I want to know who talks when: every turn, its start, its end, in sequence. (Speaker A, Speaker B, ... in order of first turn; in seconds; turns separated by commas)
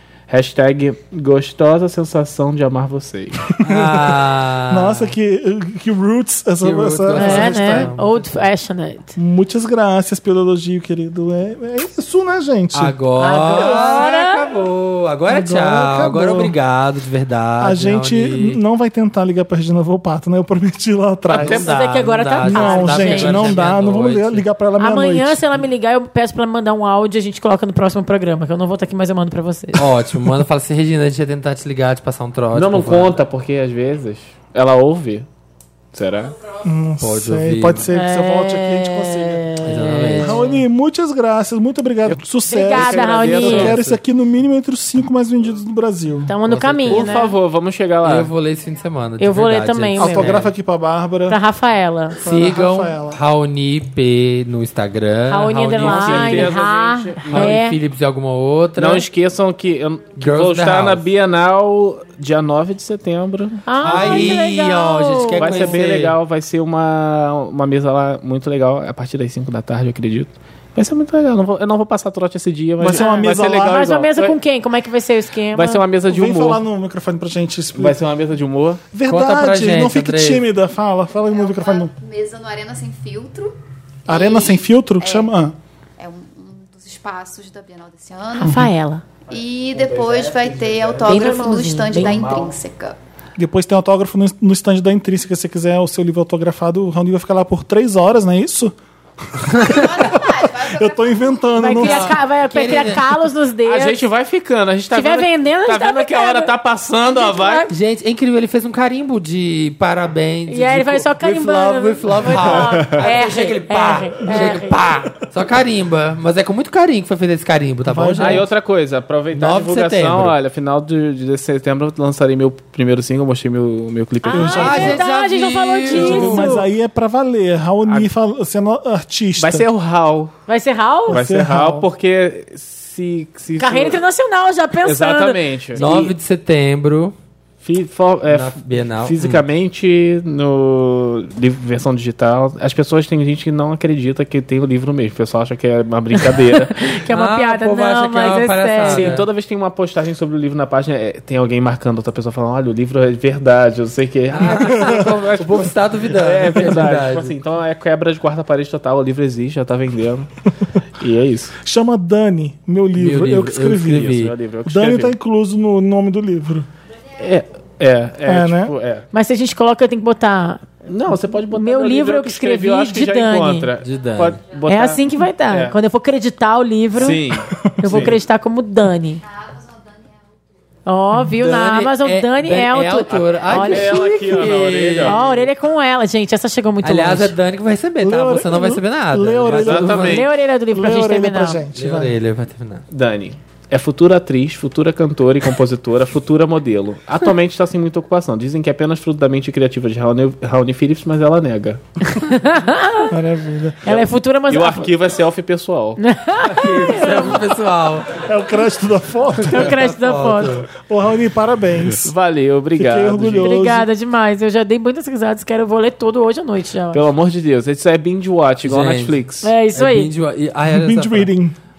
Speaker A: 0.3-3.5, Speaker B: 3.6-5.1, Speaker C: 3.6-7.9, Speaker B: 6.6-8.4, Speaker D: 7.2-9.2, Speaker C: 9.2-14.1, Speaker B: 12.7-18.6, Speaker D: 13.2-14.4, Speaker C: 15.3-16.6, Speaker C: 17.6-21.7, Speaker D: 21.4-23.6, Speaker B: 21.4-24.4, Speaker C: 22.4-25.4, Speaker D: 24.8-29.9, Speaker B: 29.8-33.2, Speaker A: 32.5-35.3, Speaker A: 35.9-36.4, Speaker C: 36.6-39.6, Speaker B: 37.0-37.9, Speaker D: 37.9-40.6, Speaker B: 39.6-40.5, Speaker C: 40.1-46.3, Speaker A: 42.1-44.0, Speaker D: 42.5-43.8, Speaker D: 46.3-47.3, Speaker B: 46.5-47.1, Speaker A: 46.9-48.3, Speaker B: 48.0-50.5, Speaker D: 49.2-50.4, Speaker C: 50.0-51.4, Speaker D: 51.3-52.2, Speaker C: 52.2-53.2, Speaker B: 52.2-56.6, Speaker D: 55.3-57.8, Speaker A: 55.8-57.6, Speaker B: 57.3-59.1, Speaker A: 58.8-64.4, Speaker B: 60.2-61.1, Speaker D: 63.7-65.8, Speaker B: 63.8-66.2, Speaker A: 65.4-74.4, Speaker C: 72.8-73.9, Speaker D: 72.9-75.8, Speaker A: 75.5-76.6, Speaker C: 76.1-78.0, Speaker A: 77.8-78.8, Speaker C: 78.9-81.9, Speaker B: 79.1-80.4, Speaker E: 81.3-85.3, Speaker C: 84.1-85.5, Speaker E: 86.0-88.7, Speaker D: 88.4-89.0, Speaker E: 89.3-93.0, Speaker A: 89.3-91.4, Speaker D: 91.0-92.2, Speaker A: 92.0-92.5, Speaker C: 93.4-98.8, Speaker C: 99.3-102.2, Speaker E: 99.6-101.7, Speaker D: 101.6-104.1, Speaker B: 101.8-103.1, Speaker A: 103.7-107.7, Speaker D: 104.9-106.5, Speaker D: 107.1-107.7, Speaker B: 107.7-118.5, Speaker D: 110.5-114.8, Speaker C: 117.8-118.5, Speaker A: 118.2-125.0, Speaker B: 119.3-120.3, Speaker D: 124.2-126.7, Speaker C: 124.3-125.0, Speaker B: 124.4-126.5, Speaker C: 125.9-129.7, Speaker A: 129.4-130.3, Speaker D: 130.5-131.2, Speaker C: 131.1-131.9, Speaker A: 131.1-134.0, Speaker D: 133.6-136.0, Speaker A: 134.8-136.1, Speaker B: 135.8-137.2, Speaker A: 137.6-146.7, Speaker B: 138.3-139.4, Speaker D: 146.7-149.2, Speaker B: 147.0-149.3, Speaker A: 148.9-160.3, Speaker B: 154.3-157.3, Speaker A: 161.0-161.6, Speaker C: 161.6-166.7, Speaker B: 163.0-164.3, Speaker A: 164.0-165.1, Speaker A: 167.2-169.1, Speaker C: 168.2-168.7, Speaker D: 169.1-173.7, Speaker A: 170.8-175.8, Speaker B: 173.8-174.4, Speaker D: 174.7-177.2, Speaker A: 176.9-178.2, Speaker C: 177.6-178.0, Speaker D: 177.8-179.2, Speaker E: 179.2-180.6, Speaker D: 180.8-184.0, Speaker B: 181.2-185.2, Speaker A: 183.1-185.5, Speaker D: 185.0-187.3, Speaker B: 186.8-190.3, Speaker C: 188.0-190.1, Speaker A: 189.5-190.3, Speaker D: 190.1-191.6, Speaker C: 190.7-192.1, Speaker B: 191.8-192.8, Speaker A: 192.9-201.8, Speaker D: 202.1-203.1, Speaker C: 203.1-203.9, Speaker D: 203.9-204.9, Speaker A: 203.9-206.0, Speaker D: 206.0-207.5, Speaker B: 206.5-208.1, Speaker C: 208.2-209.7, Speaker D: 209.4-210.6, Speaker B: 209.5-210.7, Speaker C: 210.7-212.1, Speaker A: 212.0-213.6, Speaker C: 212.7-213.9, Speaker D: 213.4-217.0, Speaker A: 216.9-219.5, Speaker B: 218.6-219.2, Speaker D: 219.4-220.1, Speaker B: 219.7-221.3, Speaker C: 220.7-221.6